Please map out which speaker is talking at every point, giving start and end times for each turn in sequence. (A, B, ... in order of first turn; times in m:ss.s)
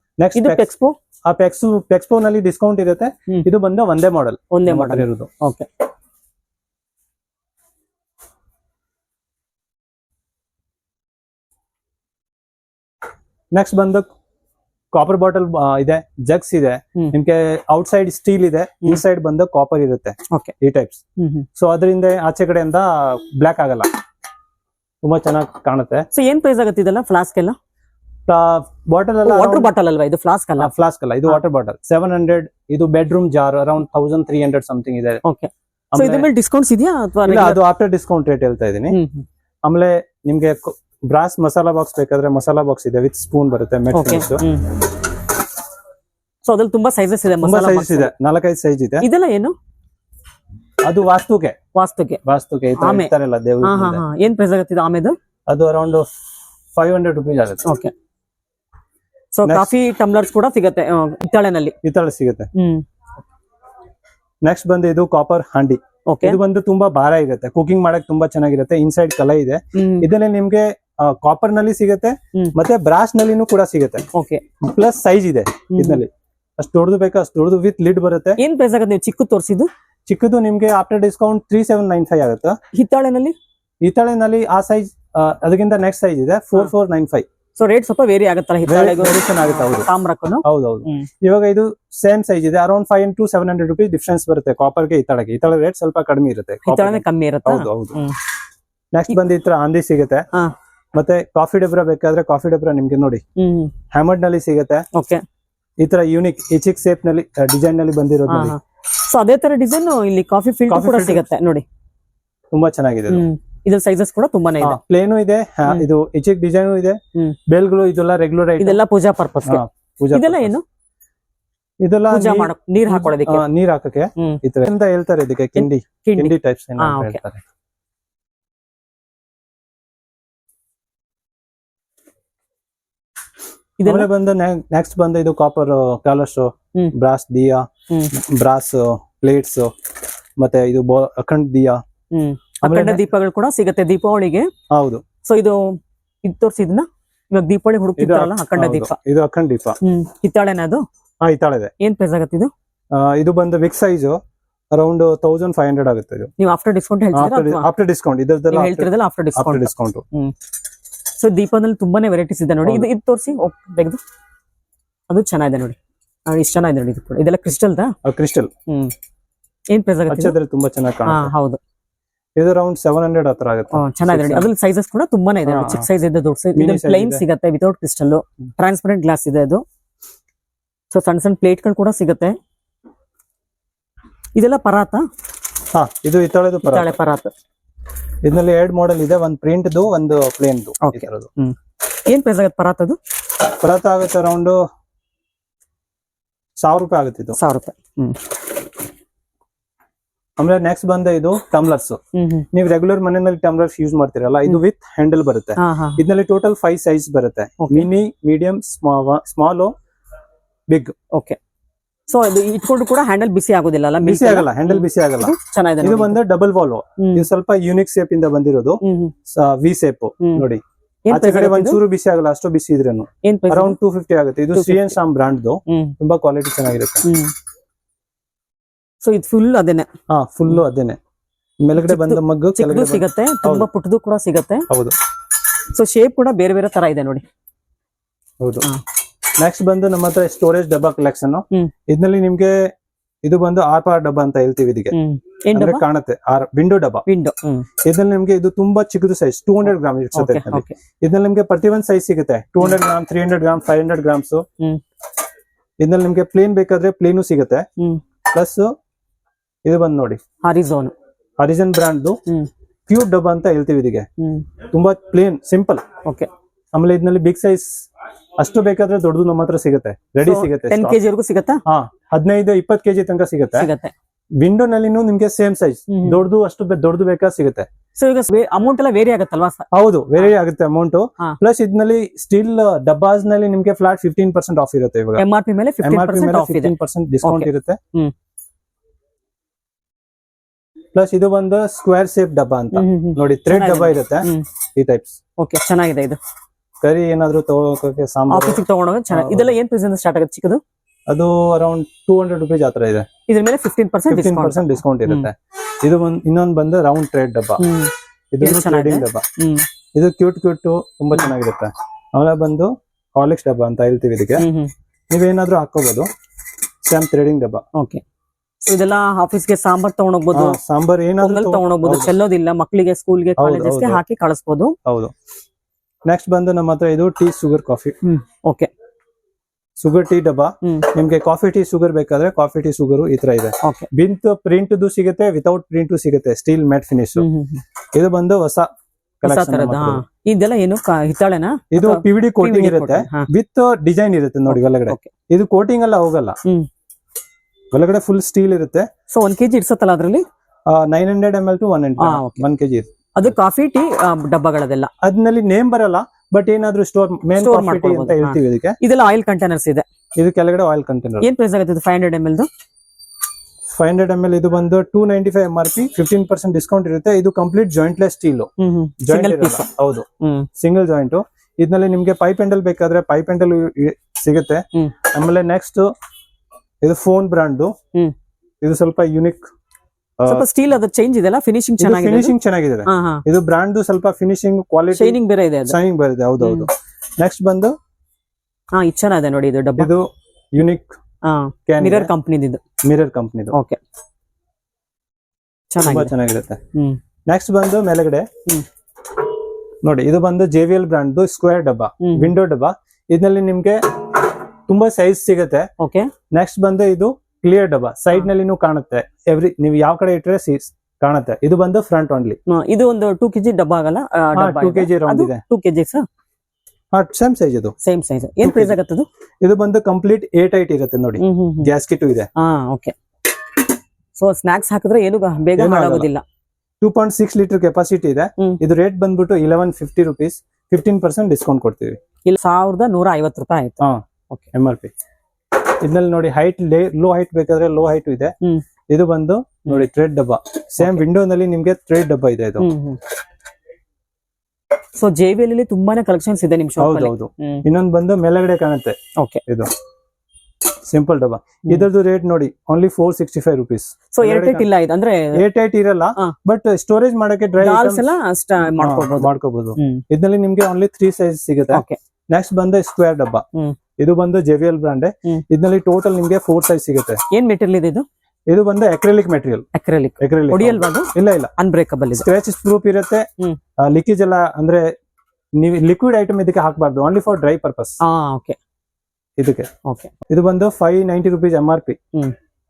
0:00.2-0:00.7 A
0:00.4-0:01.0 B
0:01.3-0:05.3 A
0:04.5-0:05.7 B
0:13.5-0:14.1 A
0:14.9-0:21.0 A
0:21.2-0:21.5 B
0:21.6-0:23.9 A
0:25.0-0:26.1 A
0:26.1-0:27.6 B
0:28.3-0:29.7 A
0:29.2-0:30.7 B
0:30.6-0:35.2 A
0:35.2-0:37.6 B
0:35.9-0:36.3 A
0:37.2-0:39.0 A
0:38.9-0:39.3 B
0:39.7-0:44.4 A
0:43.9-0:44.8 B
0:46.4-0:48.1 B
0:47.4-0:49.1 A
0:49.0-0:49.6 B
0:50.8-0:51.6 A
0:51.8-0:52.2 B
0:52.2-0:54.0 A
0:52.8-0:55.2 B
0:55.5-0:56.1 A
0:56.8-0:57.7 A
0:57.6-0:57.9 B
0:59.3-1:01.8 B
0:59.4-0:59.7 A
1:01.8-1:02.5 A
1:02.6-1:02.8 B
1:04.4-1:14.1 A
1:06.1-1:06.4 B
1:09.8-1:10.1 B
1:14.1-1:14.4 B
1:14.6-1:18.4 A
1:15.7-1:16.0 B
1:18.4-1:19.7 B
1:20.1-1:22.6 A
1:22.7-1:23.4 B
1:23.8-1:27.3 A
1:27.6-1:31.1 B
1:28.7-1:29.9 A
1:30.4-1:38.0 A
1:36.6-1:38.2 B
1:38.9-1:40.3 A
1:41.0-1:43.2 A
1:43.4-1:43.7 B
1:43.9-1:44.9 A
1:44.9-1:45.2 B
1:45.8-1:48.6 A
1:48.3-1:51.6 B
1:50.7-1:51.3 A
1:52.5-1:53.2 A
1:53.1-1:54.8 B
1:54.6-1:58.8 A
1:58.6-2:00.6 B
1:59.5-2:00.6 A
2:01.8-2:07.4 A
2:02.1-2:03.4 B
2:05.6-2:07.2 B
2:13.8-2:14.1 B
2:13.8-2:19.7 A
2:20.4-2:21.8 A
2:22.1-2:24.5 B
2:22.6-2:23.0 A
2:24.7-2:25.0 A
2:25.2-2:29.0 B
2:28.0-2:29.8 A
2:29.8-2:30.8 B
2:31.2-2:31.7 A
2:31.8-2:32.5 B
2:32.9-2:34.2 A
2:34.7-2:36.3 A
2:36.4-2:37.7 B
2:37.1-2:40.0 A
2:38.5-2:40.4 B
2:41.2-2:44.0 B
2:42.6-2:42.9 A
2:45.1-2:45.8 B
2:46.3-2:48.0 B
2:48.0-2:48.5 A
2:48.7-2:48.9 B
2:49.7-2:50.4 B
2:50.1-2:51.3 A
2:51.1-2:51.6 B
2:52.4-2:54.5 A
2:53.7-2:59.6 B
2:55.5-2:55.9 A
2:56.6-2:57.2 A
3:00.9-3:02.4 B
3:04.4-3:05.0 B
3:05.7-3:06.9 A
3:06.6-3:07.3 B
3:08.2-3:11.3 A
3:10.8-3:11.6 B
3:12.1-3:13.0 B
3:13.5-3:14.6 A
3:16.6-3:17.4 A
3:17.3-3:18.2 B
3:20.4-3:22.0 A
3:22.2-3:22.5 B
3:22.5-3:29.7 A
3:25.6-3:26.0 B
3:27.6-3:27.9 B
3:30.7-3:30.9 A
3:32.1-3:36.2 B
3:34.0-3:47.1 A
3:37.0-3:37.3 B
3:38.8-3:39.1 B
3:40.2-3:40.5 B
3:41.1-3:41.8 B
3:43.2-3:43.8 B
3:44.5-3:45.0 B
3:45.7-3:46.0 B
3:47.0-3:47.3 B
3:49.0-3:49.9 B
3:50.1-3:51.0 A
3:51.6-3:53.7 A
3:51.8-3:54.7 B
3:54.7-3:55.0 A
3:55.7-3:57.2 B
3:58.4-3:58.7 A
3:59.4-4:02.7 A
4:03.2-4:05.0 A
4:04.9-4:05.8 B
4:05.5-4:07.0 A
4:07.1-4:07.7 B
4:07.8-4:14.4 A
4:10.2-4:10.8 B
4:15.8-4:17.7 A
4:18.3-4:18.7 A
4:19.6-4:20.2 A
4:20.4-4:20.9 B
4:21.4-4:22.2 A
4:22.9-4:24.1 A
4:24.2-4:24.5 B
4:24.7-4:25.9 A
4:26.7-4:27.9 A
4:28.4-4:31.0 A
4:30.2-4:31.6 B
4:31.7-4:33.7 A
4:33.6-4:33.9 B
4:34.4-4:37.7 A
4:35.9-4:36.2 B
4:38.0-4:40.3 B
4:39.7-4:45.2 A
4:45.2-4:48.1 B
4:45.8-4:47.8 A
4:50.9-4:55.2 A
4:52.7-4:54.5 B
4:55.4-4:56.2 B
4:56.8-4:59.5 A
4:58.3-5:00.6 B
5:01.1-5:03.1 A
5:03.3-5:05.3 B
5:04.1-5:07.6 A
5:07.6-5:09.6 B
5:08.3-5:09.2 A
5:10.0-5:14.5 A
5:14.4-5:14.7 B
5:15.1-5:16.1 A
5:16.8-5:17.6 A
5:17.8-5:18.0 B
5:18.6-5:20.6 B
5:20.3-5:22.1 A
5:21.2-5:24.8 B
5:23.4-5:24.0 A
5:24.9-5:25.1 A
5:26.1-5:28.0 A
5:28.0-5:28.7 B
5:29.8-5:37.3 A
5:30.6-5:30.9 B
5:33.6-5:33.9 B
5:37.2-5:37.6 B
5:37.9-5:38.7 A
5:39.2-5:40.0 A
5:39.2-5:43.3 B
5:41.7-5:46.4 A
5:44.5-5:45.1 B
5:47.7-5:48.9 A
5:49.1-5:50.2 B
5:50.7-5:53.4 A
5:52.0-5:52.4 B
5:53.2-5:54.9 B
5:55.0-5:58.8 A
5:57.4-5:59.8 B
6:00.2-6:01.3 A
6:01.2-6:02.5 B
6:03.7-6:08.5 A
6:08.6-6:09.7 B
6:09.0-6:10.1 A
6:10.2-6:10.5 B
6:10.6-6:15.9 A
6:16.8-6:17.7 A
6:18.6-6:19.5 A
6:20.2-6:20.5 A
6:20.3-6:22.4 B
6:21.8-6:27.8 A
6:22.9-6:23.2 B
6:24.9-6:25.8 B
6:26.4-6:26.7 B
6:28.8-6:29.9 B
6:29.8-6:31.0 A
6:31.2-6:32.6 B
6:31.7-6:32.1 A
6:32.8-6:33.6 A
6:33.5-6:33.8 B
6:35.7-6:36.1 B
6:35.8-6:36.6 A
6:36.7-6:37.0 B
6:37.3-6:38.3 A
6:39.8-6:45.7 A
6:42.0-6:42.3 B
6:45.8-6:46.1 B
6:46.3-6:52.4 A
6:52.5-6:56.1 B
6:54.4-6:55.4 A
6:56.9-6:57.7 A
6:57.8-6:59.1 B
6:58.4-6:58.8 A
6:59.4-7:02.3 A
7:01.2-7:01.7 B
7:02.4-7:02.9 B
7:04.2-7:06.2 B
7:05.6-7:06.1 A
7:06.8-7:12.0 A
7:12.3-7:14.5 B
7:14.5-7:14.9 A
7:15.8-7:18.3 A
7:18.9-7:22.7 A
7:22.6-7:23.0 B
7:25.0-7:27.6 B
7:26.8-7:29.7 A
7:29.2-7:29.4 B
7:30.9-7:34.7 A
7:34.1-7:35.4 B
7:35.3-7:38.0 A
7:37.6-7:40.0 B
7:38.8-7:43.4 A
7:41.7-7:42.0 B
7:44.0-7:47.2 A
7:47.3-7:48.1 B
7:48.5-7:49.7 A
7:49.7-7:52.3 B
7:50.2-7:51.5 A
7:52.1-7:53.3 A
7:53.8-7:54.9 A
7:55.6-7:58.0 A
7:58.0-7:58.6 B
7:59.4-7:59.7 A
7:59.8-8:00.1 B
8:00.3-8:02.0 A